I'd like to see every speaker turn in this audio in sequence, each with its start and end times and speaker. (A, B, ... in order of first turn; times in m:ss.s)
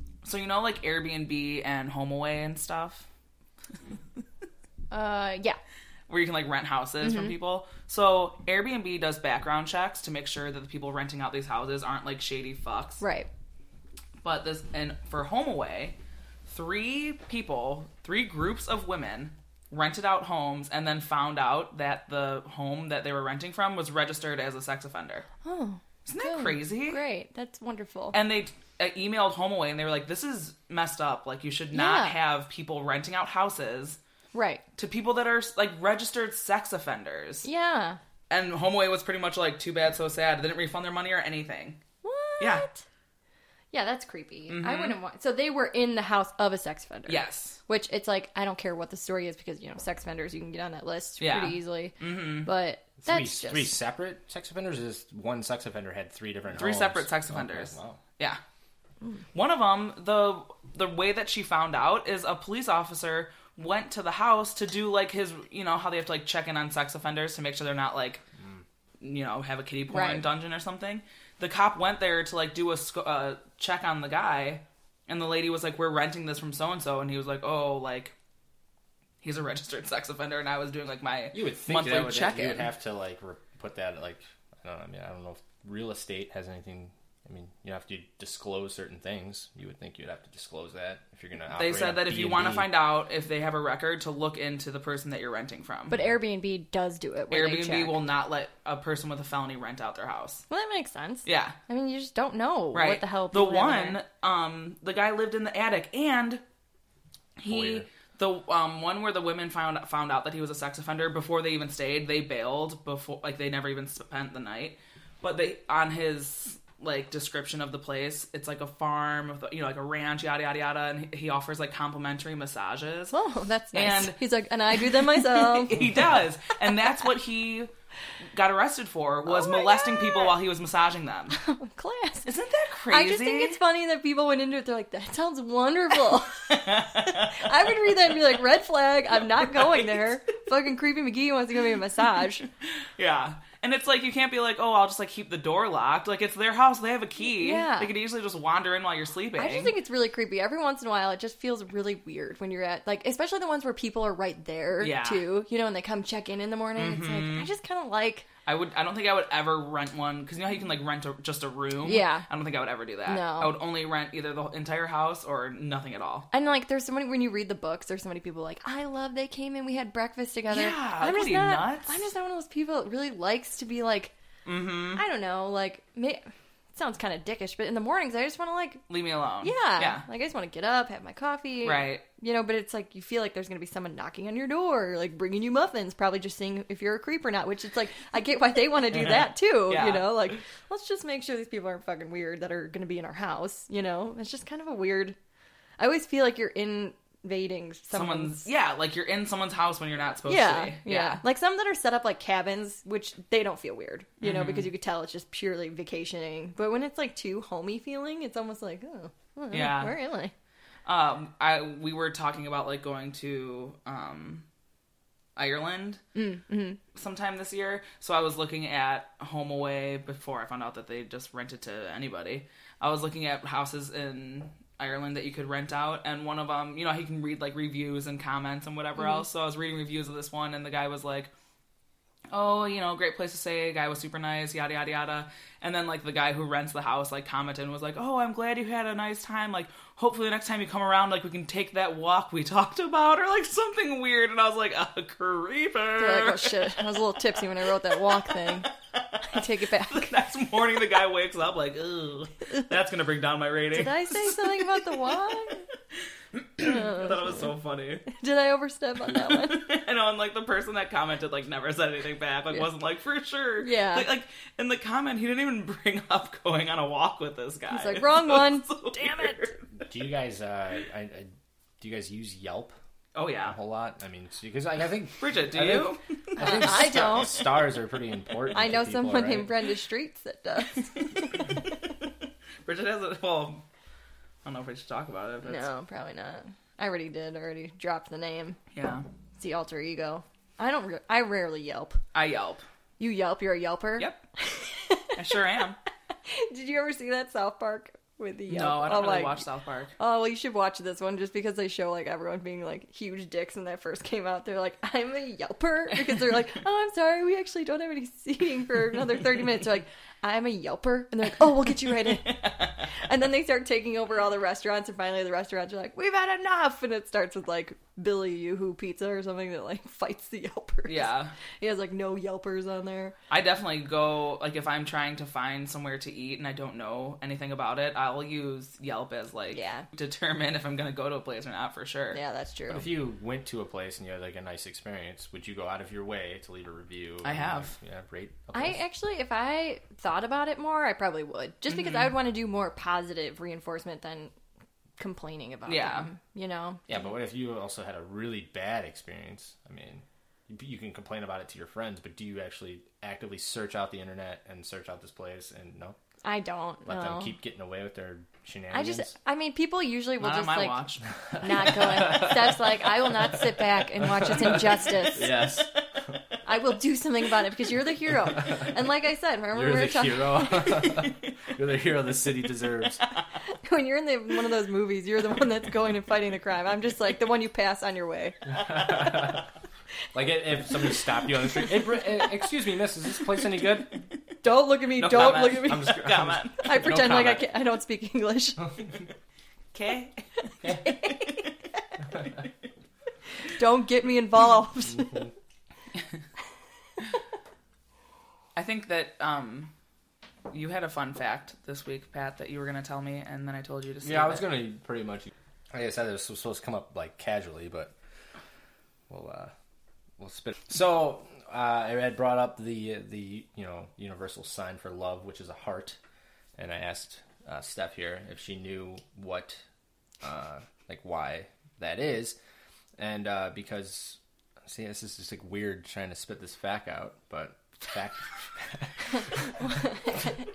0:00.2-0:03.0 A
0:04.9-0:05.6 B
0:06.1-0:13.0 A
0:07.0-0:07.3 B
0:13.0-0:13.3 B
0:14.2-0:25.3 A
0:25.4-0:28.2 B
0:26.0-0:27.0 A
0:28.1-0:34.0 A
0:31.7-0:32.2 B
0:34.3-0:34.6 B
0:34.8-0:37.5 A
0:37.4-0:38.0 B
0:38.3-0:41.8 A
0:42.0-0:42.8 B
0:42.4-0:42.7 A
0:43.7-0:53.8 B
0:44.5-0:45.0 A
0:47.1-0:47.6 A
0:51.2-0:52.5 A
0:53.0-0:58.0 C
0:56.5-0:58.4 A
0:59.3-1:08.2 A
1:09.0-1:18.1 A
1:09.9-1:10.3 B
1:19.2-1:22.7 A
1:21.3-1:32.7 C
1:31.5-1:36.0 A
1:35.9-1:38.0 B
1:37.3-1:40.4 A
1:40.5-1:44.0 B
1:41.2-1:41.6 A
1:42.7-1:46.4 A
1:47.4-2:03.2 A
1:47.4-1:47.8 C
2:03.1-2:05.8 B
2:03.7-2:04.2 A
2:04.9-2:07.7 A
2:08.3-2:11.4 A
2:09.2-2:10.3 B
2:11.3-2:12.3 B
2:12.2-2:13.6 A
2:12.9-2:22.5 B
2:16.5-2:17.5 A
2:19.5-2:19.9 A
2:23.0-2:29.7 A
2:27.2-2:27.9 B
2:29.4-2:38.3 B
2:34.8-2:35.2 A
2:36.8-2:37.5 A
2:38.4-2:46.3 A
2:41.8-2:42.3 B
2:43.0-2:43.6 B
2:46.3-2:54.1 B
2:50.5-2:52.0 A
2:54.4-2:55.0 A
2:54.9-2:58.8 B
2:58.9-3:00.0 A
2:59.4-3:15.2 B
3:01.6-3:02.0 A
3:09.7-3:10.1 A
3:15.8-3:18.5 B
3:17.9-3:21.2 A
3:20.3-3:30.3 B
3:24.2-3:24.7 A
3:29.5-3:29.9 A
3:30.8-3:34.4 A
3:35.4-3:36.0 A
3:36.1-3:36.8 B
3:36.9-3:51.3 A
3:49.0-3:49.2 B
3:52.3-4:06.9 A
4:06.0-4:08.7 B
4:08.2-4:09.3 A
4:09.2-4:10.1 B
4:09.9-4:15.1 A
4:13.7-4:15.6 B
4:16.3-4:18.1 A
4:16.6-4:17.4 B
4:18.1-4:19.7 B
4:19.1-4:29.6 A
4:23.6-4:24.1 B
4:27.7-4:29.4 B
4:29.8-4:32.7 C
4:33.1-4:33.6 A
4:33.4-4:39.5 C
4:35.2-4:36.9 A
4:36.4-4:37.6 B
4:38.5-4:41.6 B
4:41.1-4:41.8 A
4:42.6-4:43.6 A
4:44.4-4:45.7 A
4:45.4-4:48.6 B
4:48.7-4:49.0 A
4:49.4-4:52.0 B
4:52.1-4:52.6 A
4:53.0-4:55.2 B
4:54.0-4:54.2 A
4:55.1-4:55.8 A
4:56.3-4:59.4 B
4:58.5-4:59.9 A
5:00.0-5:23.1 B
5:12.5-5:12.8 A
5:20.9-5:21.3 A
5:23.3-5:32.2 A
5:29.5-5:29.8 B
5:32.1-5:32.9 B
5:32.7-5:38.8 C
5:37.2-5:37.7 A
5:38.5-5:44.3 B
5:41.7-5:42.1 A
5:45.0-5:46.8 B
5:45.7-5:46.1 A
5:46.9-5:56.0 C
5:56.2-5:57.4 B
5:56.8-5:59.1 C
5:58.7-6:00.8 B
6:00.2-6:01.0 A
6:01.4-6:05.4 B
6:01.6-6:02.6 C
6:04.0-6:05.7 C
6:06.4-6:11.1 B
6:09.5-6:13.0 C
6:13.6-6:19.3 B
6:18.5-6:19.5 C
6:20.1-6:24.0 C
6:20.8-6:22.4 B
6:24.4-6:28.7 B
6:25.0-6:27.4 A
6:25.3-6:27.4 C
6:29.7-6:30.2 A
6:30.6-6:30.9 C
6:30.8-6:31.5 B
6:30.8-6:31.5 A
6:33.5-6:35.3 B
6:38.6-6:39.7 A
6:40.5-6:44.5 A
6:44.0-6:47.9 C
6:49.1-6:49.5 C
6:50.2-6:56.0 C
6:56.6-6:59.6 C
7:00.2-7:02.4 C
7:03.0-7:10.3 C